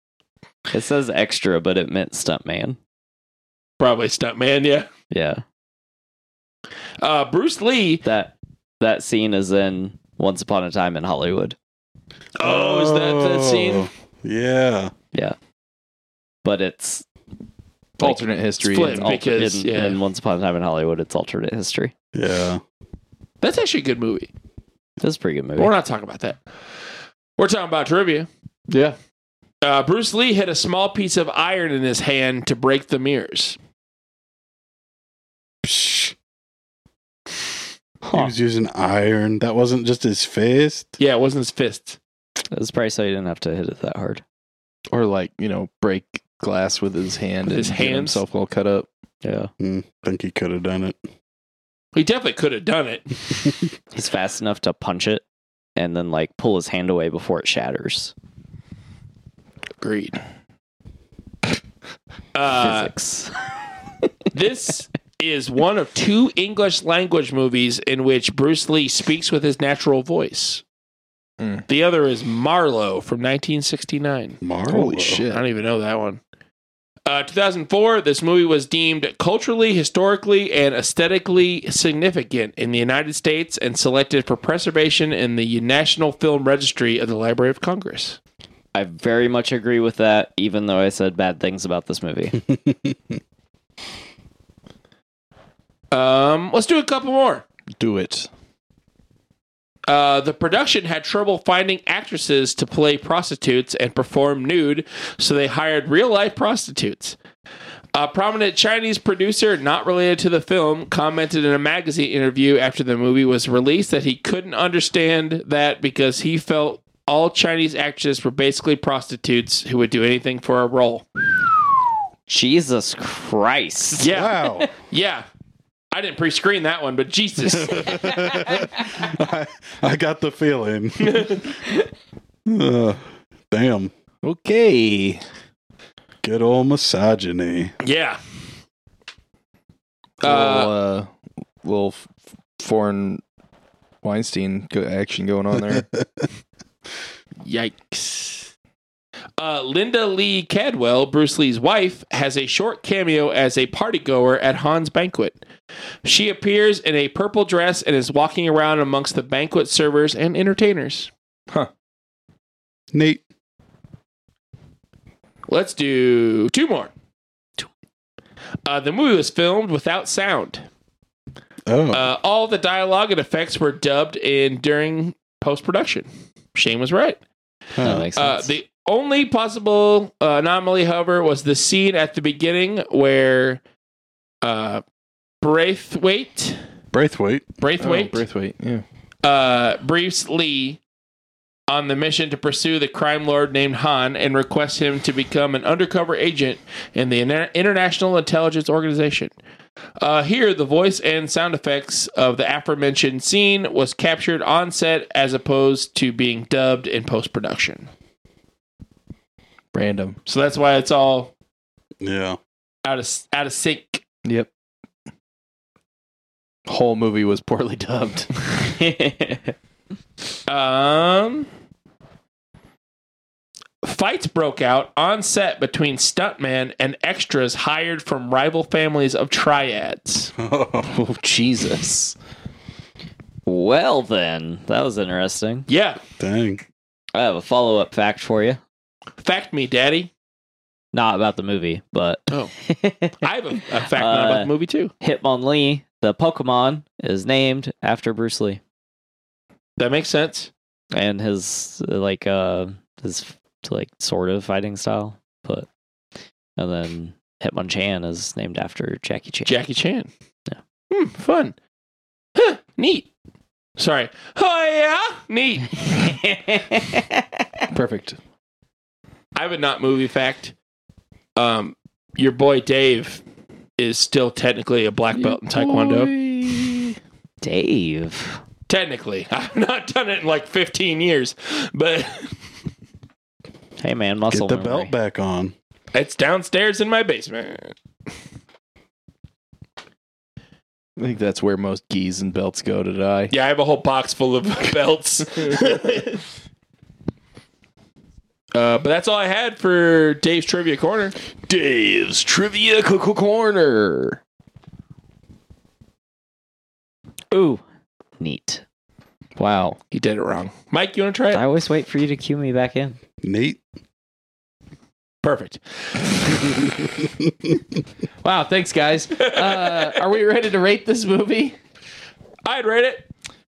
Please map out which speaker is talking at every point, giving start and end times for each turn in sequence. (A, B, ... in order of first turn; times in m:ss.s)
0:00.7-0:02.8 A
0:03.8-0:04.9 B
0:05.1-0:05.4 A
0:07.0-0:08.0 B
0:08.0-0:11.6 A
0:12.4-0:13.9 B
0:12.4-0:14.9 C
0:16.4-0:17.0 A
0:18.0-0:19.1 D
0:18.0-0:18.2 A
0:18.6-0:20.0 B
0:18.8-0:21.9 A
0:22.1-0:22.6 C
0:23.4-0:24.3 B
0:25.0-0:25.7 A
0:25.6-0:26.4 B
0:27.4-0:28.3 B
0:28.7-0:29.0 D
0:29.6-0:33.6 B
0:35.6-0:36.1 C
0:38.1-0:38.3 A
0:38.1-0:40.9 C
0:41.0-0:42.0 B
0:42.5-0:44.2 A
0:44.9-0:48.9 D
0:47.5-0:48.2 B
0:49.2-0:49.5 A
0:49.6-0:51.0 C
0:51.9-0:53.2 B
0:53.9-0:55.2 A
0:55.8-0:58.1 A
0:59.8-1:00.2 B
1:02.3-1:02.9 B
1:02.5-1:03.3 A
1:04.3-1:10.6 B
1:11.7-1:14.4 B
1:14.4-1:15.2 C
1:14.7-1:15.4 D
1:15.3-1:16.2 B
1:17.0-1:28.2 B
1:28.7-1:32.4 A
1:35.9-1:37.4 B
1:37.8-1:38.3 D
1:39.9-1:47.2 B
1:47.9-2:01.0 B
2:02.3-2:04.1 A
2:04.0-2:05.2 B
2:04.1-2:04.7 C
2:05.9-2:08.1 B
2:07.4-2:11.5 C
2:11.0-2:11.8 B
2:12.4-2:13.9 C
2:14.2-2:15.2 D
2:16.2-2:17.7 C
2:17.8-2:18.2 B
2:20.2-2:20.7 B
2:20.2-2:21.1 D
2:21.6-2:23.2 D
2:24.0-2:25.8 D
2:25.7-2:26.0 C
2:27.4-2:28.5 B
2:29.4-2:35.4 B
2:36.0-2:41.1 B
2:42.9-2:43.2 C
2:45.5-2:46.9 B
2:48.6-2:50.6 B
2:51.7-2:52.1 C
2:51.9-2:57.2 B
2:57.8-2:58.1 C
2:57.8-2:58.5 A
2:58.1-3:03.6 B
3:04.4-3:04.8 B
3:05.4-3:06.6 B
3:06.9-3:07.4 C
3:07.6-3:08.2 B
3:07.8-3:08.8 D
3:09.2-3:10.8 B
3:11.7-3:19.3 B
3:20.0-3:27.9 B
3:29.7-3:30.2 D
3:30.2-3:31.3 B
3:32.0-3:32.4 C
3:32.8-3:34.0 B
3:34.2-3:34.5 D
3:36.7-3:38.3 D
3:38.6-3:39.5 A
3:40.5-3:41.5 B
3:43.8-3:50.3 B
3:50.4-3:51.0 C
3:50.9-3:52.2 D
3:53.4-3:55.7 A
3:55.7-3:56.0 B
3:56.2-3:56.6 C
3:57.1-3:58.6 A
3:59.2-4:00.1 B
4:00.9-4:04.5 A
4:03.2-4:04.9 B
4:05.0-4:08.6 A
4:09.8-4:10.5 B
4:10.9-4:15.7 A
4:16.6-4:19.5 A
4:19.4-4:20.1 B
4:20.9-4:21.5 B
4:22.4-4:23.1 B
4:23.8-4:26.0 B
4:25.9-4:27.2 A
4:27.7-4:28.2 D
4:29.3-4:30.5 B
4:31.4-4:33.2 B
4:33.8-4:36.1 B
4:35.2-4:36.9 D
4:37.4-4:38.4 A
4:38.7-4:42.3 B
4:43.8-4:44.9 A
4:44.3-4:45.5 C
4:45.9-4:47.7 B
4:51.0-4:53.3 D
4:53.3-4:56.2 B
4:58.5-5:01.1 B
5:01.5-5:04.2 D
5:07.3-5:07.6 A
5:08.2-5:08.6 A
5:09.4-5:09.8 D
5:09.9-5:11.4 B
5:11.3-5:13.0 A
5:13.2-5:13.6 C
5:15.2-5:16.5 B
5:17.0-5:17.6 C
5:18.2-5:21.6 D
5:19.2-5:20.0 B
5:22.4-5:23.0 B